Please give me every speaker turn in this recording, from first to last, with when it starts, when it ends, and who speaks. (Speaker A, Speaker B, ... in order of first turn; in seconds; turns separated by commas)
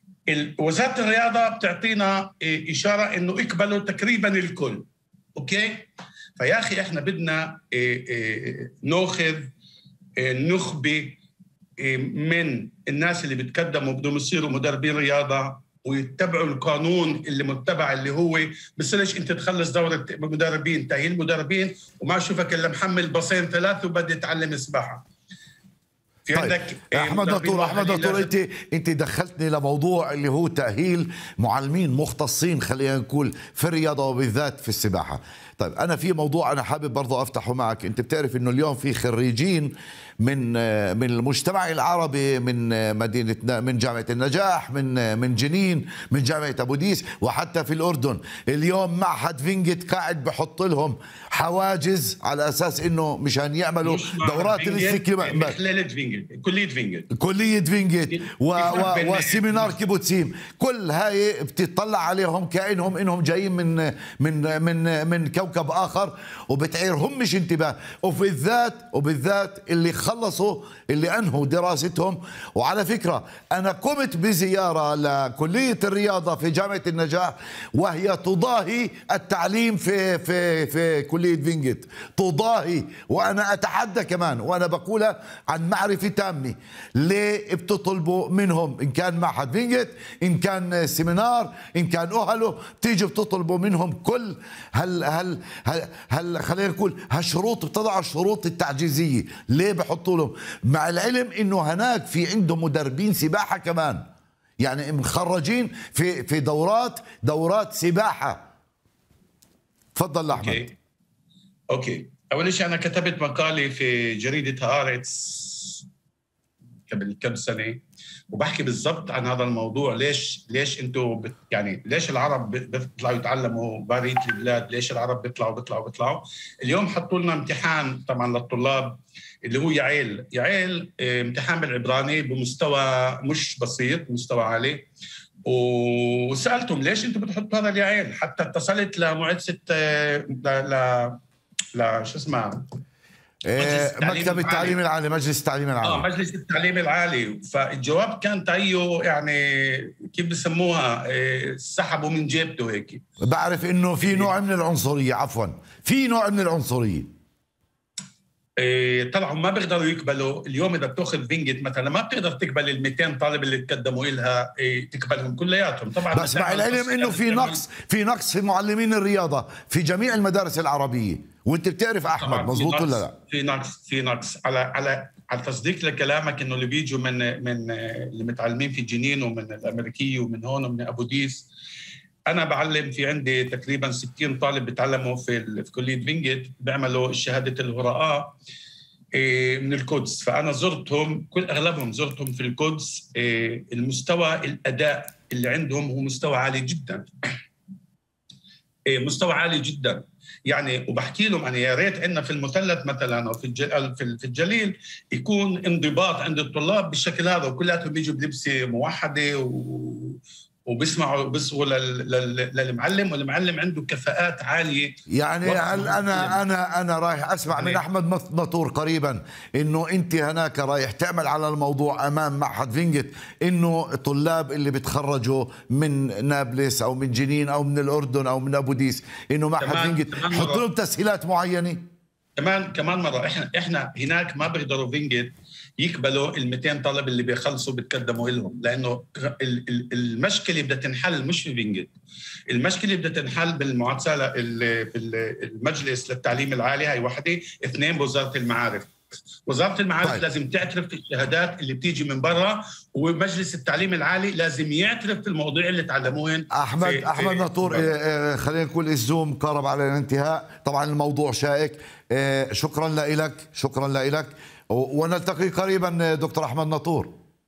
Speaker A: 0.3-9.5, Speaker A: 10.2-11.2, Speaker A: 11.8-25.0, Speaker A: 26.3-28.3, Speaker B: 26.3-55.6, Speaker A: 53.8-57.1, Speaker B: 57.1-104.0, Speaker A: 58.1-59.8, Speaker B: 104.6-108.4, Speaker B: 110.0-110.7, Speaker A: 110.3-110.7, Speaker A: 111.7-115.8, Speaker A: 116.9-134.9, Speaker A: 135.5-141.2, Speaker A: 141.7-142.6, Speaker B: 143.4-146.1, Speaker A: 143.6-144.8, Speaker A: 145.8-153.0, Speaker B: 153.2-157.1, Speaker A: 154.0-154.3, Speaker A: 158.6-167.7, Speaker B: 166.1-173.1, Speaker A: 172.2-181.5, Speaker A: 182.3-188.4, Speaker A: 189.2-197.1, Speaker A: 198.9-216.4, Speaker B: 215.1-231.8, Speaker A: 217.5-217.8, Speaker A: 229.6-230.6, Speaker A: 232.4-241.9, Speaker A: 242.5-248.9, Speaker A: 249.5-257.9, Speaker B: 256.5-267.1